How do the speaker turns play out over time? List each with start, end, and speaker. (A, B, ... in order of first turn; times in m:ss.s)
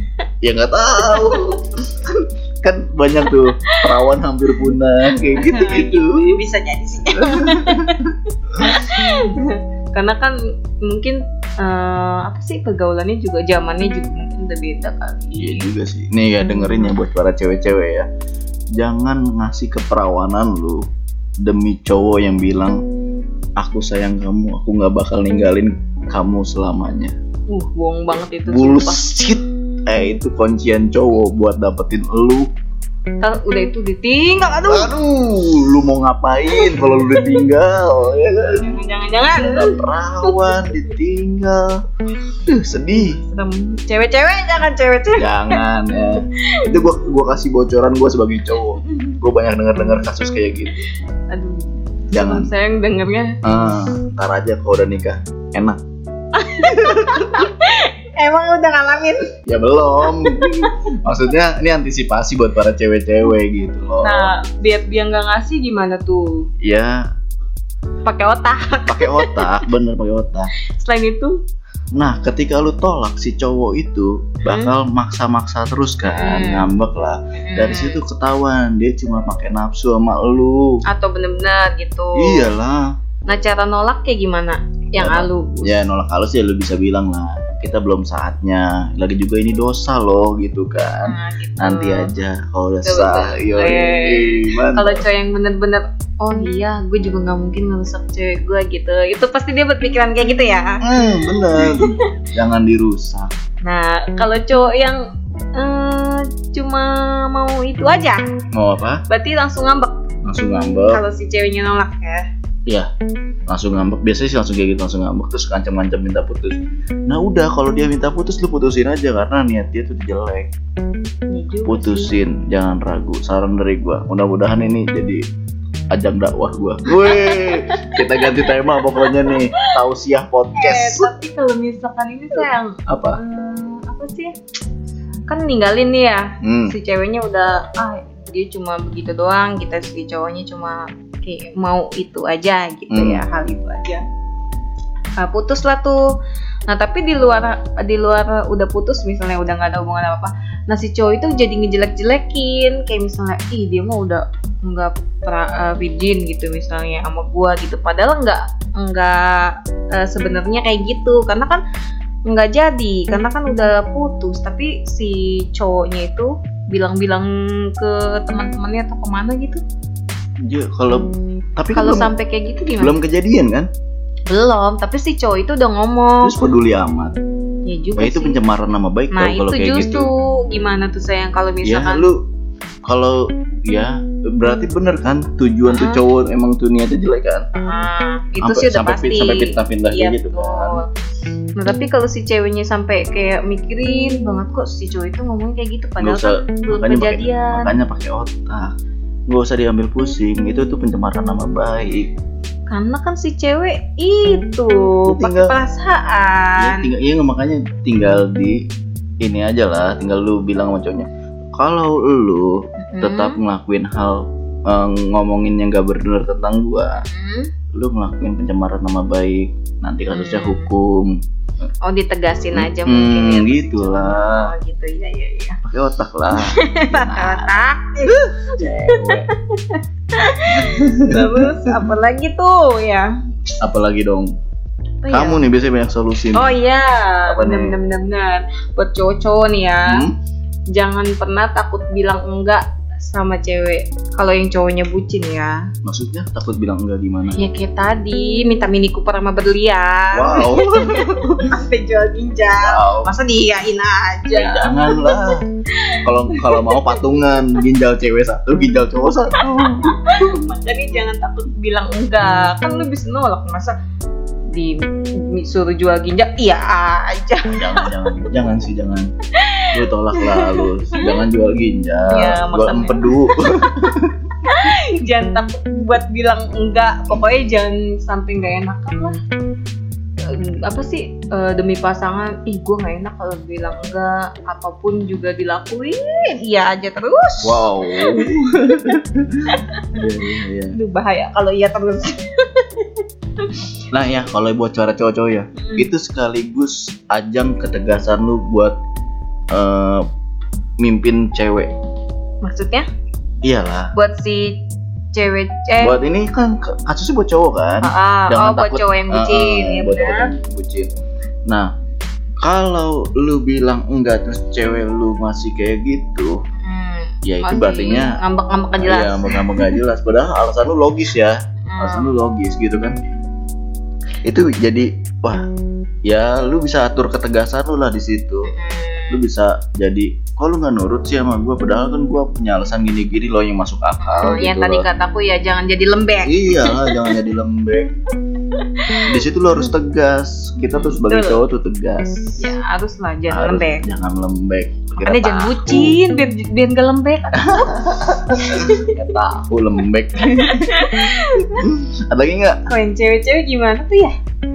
0:00.4-0:06.3 A
0:01.0-0:01.5 B
0:03.7-0:04.7 B
0:05.3-0:15.7 B
0:07.1-0:08.9 A
0:15.4-0:18.1 A
0:18.8-0:20.8 A
0:21.4-0:22.8 A
0:23.6-0:27.1 A
0:27.5-0:29.0 B
0:28.5-0:32.5 A
0:33.2-0:34.9 B
0:34.7-0:38.8 A
0:36.5-0:37.4 B
0:38.5-0:40.8 B
0:39.3-0:41.8 A
0:42.3-0:45.6 B
0:42.4-0:43.2 A
0:45.2-0:50.9 A
0:46.3-0:46.8 B
0:51.3-0:53.4 B
0:52.1-0:52.5 A
0:53.4-0:55.8 A
0:56.3-0:59.4 B
0:56.6-0:57.5 A
0:59.4-1:04.3 A
1:00.0-1:00.7 B
1:04.0-1:06.5 B
1:06.6-1:07.0 A
1:08.0-1:09.6 B
1:08.9-1:10.5 A
1:10.8-1:11.4 B
1:12.0-1:20.8 A
1:14.5-1:14.7 B
1:16.1-1:16.7 B
1:17.4-1:18.0 B
1:20.9-1:22.5 B
1:22.2-1:22.9 A
1:23.3-1:25.8 B
1:25.0-1:35.0 A
1:31.1-1:32.1 B
1:32.8-1:42.0 B
1:40.8-1:43.3 A
1:43.6-1:45.0 B
1:45.6-1:48.2 B
1:48.5-1:49.0 A
1:49.1-1:49.9 B
1:50.2-1:51.0 A
1:50.9-1:52.3 B
1:53.5-2:00.5 A
2:01.3-2:02.1 B
2:01.7-2:05.2 A
2:05.9-2:11.1 A
2:06.9-2:09.8 B
2:10.6-2:14.3 B
2:12.4-2:13.2 A
2:15.3-2:24.0 B
2:16.4-2:16.8 A
2:22.9-2:23.2 A
2:25.2-2:26.0 B
2:26.7-2:41.6 B
2:42.3-2:49.6 B
2:50.5-2:52.1 A
2:51.7-2:53.0 B
2:52.8-2:53.7 A
2:54.3-2:56.4 B
2:56.2-2:57.2 A
2:57.7-2:58.4 B
2:58.0-3:00.1 A
2:59.1-3:02.1 B
3:01.6-3:02.2 A
3:02.8-3:07.5 A
3:05.7-3:06.0 B
3:07.6-3:11.0 B
3:08.4-3:10.8 A
3:11.6-3:17.7 B
3:16.0-3:18.7 A
3:19.3-3:22.1 A
3:22.7-3:26.9 B
3:25.1-3:25.5 A
3:26.6-3:28.6 A
3:29.2-3:37.0 A
3:32.9-3:33.4 B
3:37.0-3:37.5 B
3:37.7-3:41.2 A
3:40.1-3:40.7 B
3:41.8-3:45.6 B
3:42.5-3:44.5 A
3:45.6-3:47.5 A
3:46.3-3:53.5 B
3:48.1-3:49.3 A
3:50.5-3:51.9 A
3:53.6-3:54.3 A
3:55.0-3:55.4 B
3:55.1-3:56.6 A
3:56.3-4:00.0 B
3:57.3-3:57.8 A
3:59.9-4:00.1 A
4:00.7-4:05.7 B
4:05.8-4:07.4 A
4:07.4-4:17.0 B
4:10.1-4:11.5 A
4:12.6-4:13.1 A
4:14.3-4:15.5 A
4:16.0-4:19.9 A
4:19.8-4:23.8 B
4:24.5-4:27.9 B
4:27.5-4:29.1 A
4:29.3-4:31.2 B
4:29.7-4:34.1 A
4:32.1-4:33.2 B
4:34.4-4:39.2 B
4:40.2-4:49.9 B
4:47.4-4:50.8 A
4:50.7-4:53.7 B
4:53.9-4:58.8 A
4:55.6-4:55.9 B
4:59.5-5:00.0 A
5:00.8-5:01.7 A
5:02.4-5:02.9 B
5:03.4-5:03.9 A
5:04.0-5:04.6 B
5:05.1-5:06.0 B
5:05.8-5:10.9 A
5:07.8-5:10.3 B
5:12.4-5:16.4 A
5:16.6-5:19.8 B
5:17.2-5:18.2 A
5:18.8-5:23.0 A
5:21.7-5:22.1 B
5:24.2-5:25.4 A
5:26.0-5:28.5 A
5:28.5-5:29.2 B
5:29.1-5:34.9 A
5:34.0-5:37.1 B
5:36.2-5:37.9 A
5:38.5-5:39.1 B
5:39.0-5:42.5 A
5:40.7-5:41.4 B
5:42.4-5:43.8 B
5:43.3-5:46.0 A
5:44.9-5:47.8 B
5:47.4-5:52.6 A
5:48.3-5:49.2 B
5:50.3-5:51.6 B
5:52.7-5:54.2 B